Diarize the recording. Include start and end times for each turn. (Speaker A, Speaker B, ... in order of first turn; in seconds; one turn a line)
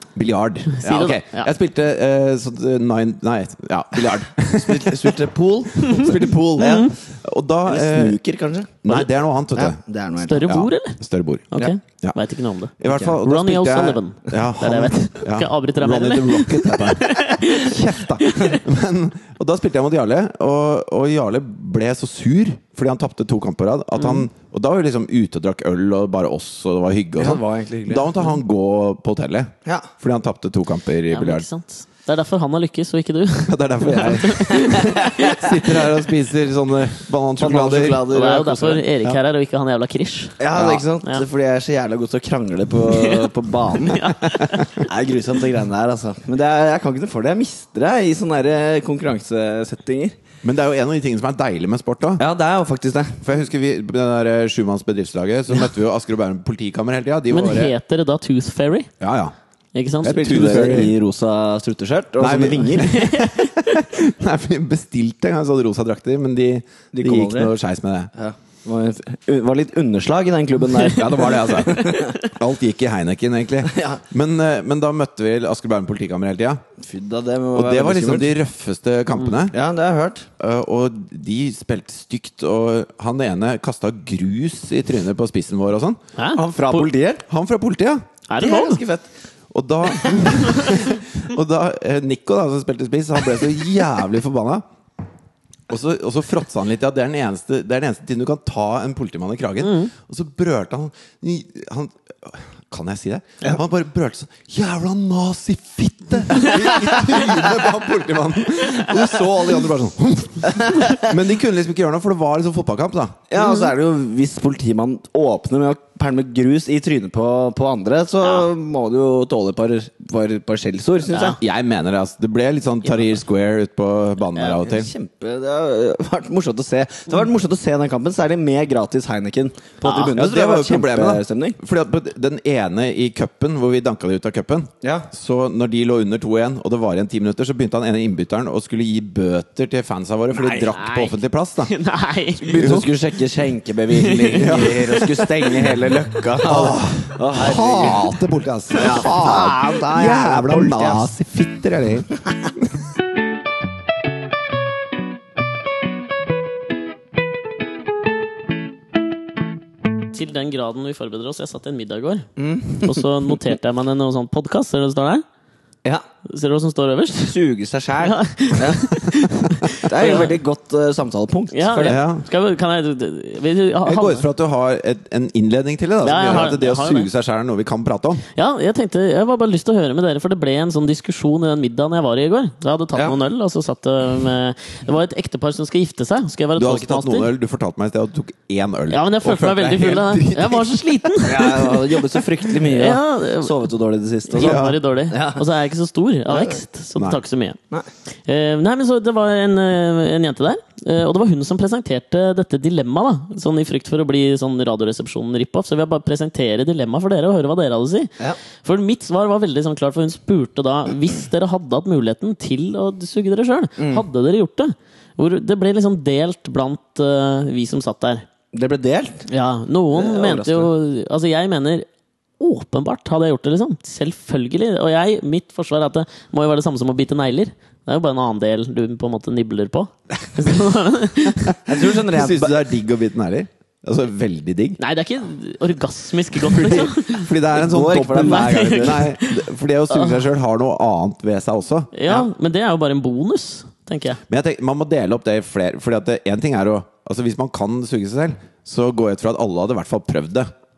Speaker A: 0.1-5.2
Speaker B: 0.7-1.5
Speaker C: 4.5-6.9
Speaker A: 5.8-8.2
Speaker B: 6.6-6.9
Speaker C: 7.7-8.9
Speaker A: 8.8-9.8
Speaker C: 9.6-10.6
Speaker B: 10.2-11.0
Speaker A: 10.4-12.2
Speaker B: 11.5-18.6
Speaker A: 12.8-31.5
Speaker C: 12.9-13.2
Speaker B: 24.0-24.2
Speaker C: 27.2-28.1
Speaker B: 31.1-35.4
Speaker A: 33.5-38.1
Speaker C: 34.7-35.6
Speaker C: 37.4-38.8
Speaker B: 38.1-40.4
Speaker C: 40.4-44.1
Speaker A: 40.5-40.8
Speaker B: 42.9-44.9
Speaker A: 44.4-44.6
Speaker C: 44.7-50.1
Speaker A: 50.4-52.2
Speaker C: 52.2-53.2
Speaker A: 53.2-57.7
Speaker B: 57.3-58.9
Speaker A: 59.0-59.3
Speaker B: 59.8-60.5
Speaker A: 60.0-61.0
Speaker C: 60.1-63.0
Speaker A: 62.2-68.1
Speaker B: 62.7-63.8
Speaker C: 66.9-67.5
Speaker C: 68.2-72.2
Speaker A: 70.8-76.6
Speaker C: 73.7-74.0
Speaker C: 76.8-78.3
Speaker A: 77.5-79.6
Speaker C: 79.5-80.3
Speaker A: 80.4-86.0
Speaker B: 86.2-86.9
Speaker C: 86.3-87.2
Speaker A: 87.3-88.0
Speaker B: 88.3-88.8
Speaker C: 88.4-89.1
Speaker A: 89.5-94.6
Speaker B: 90.3-91.0
Speaker A: 95.7-113.2
Speaker B: 99.6-99.9
Speaker C: 110.5-111.1
Speaker C: 113.3-121.4
Speaker B: 113.4-113.7
Speaker B: 121.1-121.4
Speaker A: 121.4-124.9
Speaker C: 124.4-131.6
Speaker B: 129.8-130.2
Speaker A: 130.2-141.7
Speaker C: 134.8-135.1
Speaker C: 140.4-140.7
Speaker B: 140.7-142.8
Speaker C: 142.4-148.2
Speaker A: 142.5-142.9
Speaker B: 143.9-145.7
Speaker A: 144.3-144.8
Speaker A: 146.4-152.1
Speaker C: 148.7-151.1
Speaker B: 160.1-162.3
Speaker C: 162.4-163.1
Speaker B: 162.8-165.2
Speaker B: 166.2-167.4
Speaker C: 167.2-169.1
Speaker B: 168.0-170.4
Speaker C: 169.7-172.0
Speaker B: 171.5-174.3
Speaker A: 171.8-172.2
Speaker A: 173.8-178.2
Speaker B: 176.0-177.1
Speaker B: 178.3-187.3
Speaker A: 186.6-191.0
Speaker B: 188.9-192.0
Speaker C: 191.2-195.4
Speaker B: 192.6-193.7
Speaker B: 194.3-197.6
Speaker A: 194.4-194.8
Speaker C: 196.3-196.6
Speaker A: 197.0-197.2
Speaker B: 198.2-218.2
Speaker C: 213.8-214.1
Speaker C: 218.5-219.3
Speaker B: 219.3-221.9
Speaker C: 219.9-220.7
Speaker B: 222.4-231.6
Speaker A: 231.4-234.8
Speaker C: 231.7-232.7
Speaker B: 234.8-237.3
Speaker A: 236.4-241.9
Speaker C: 237.5-239.1
Speaker B: 238.1-240.2
Speaker B: 241.9-244.2
Speaker A: 244.3-250.5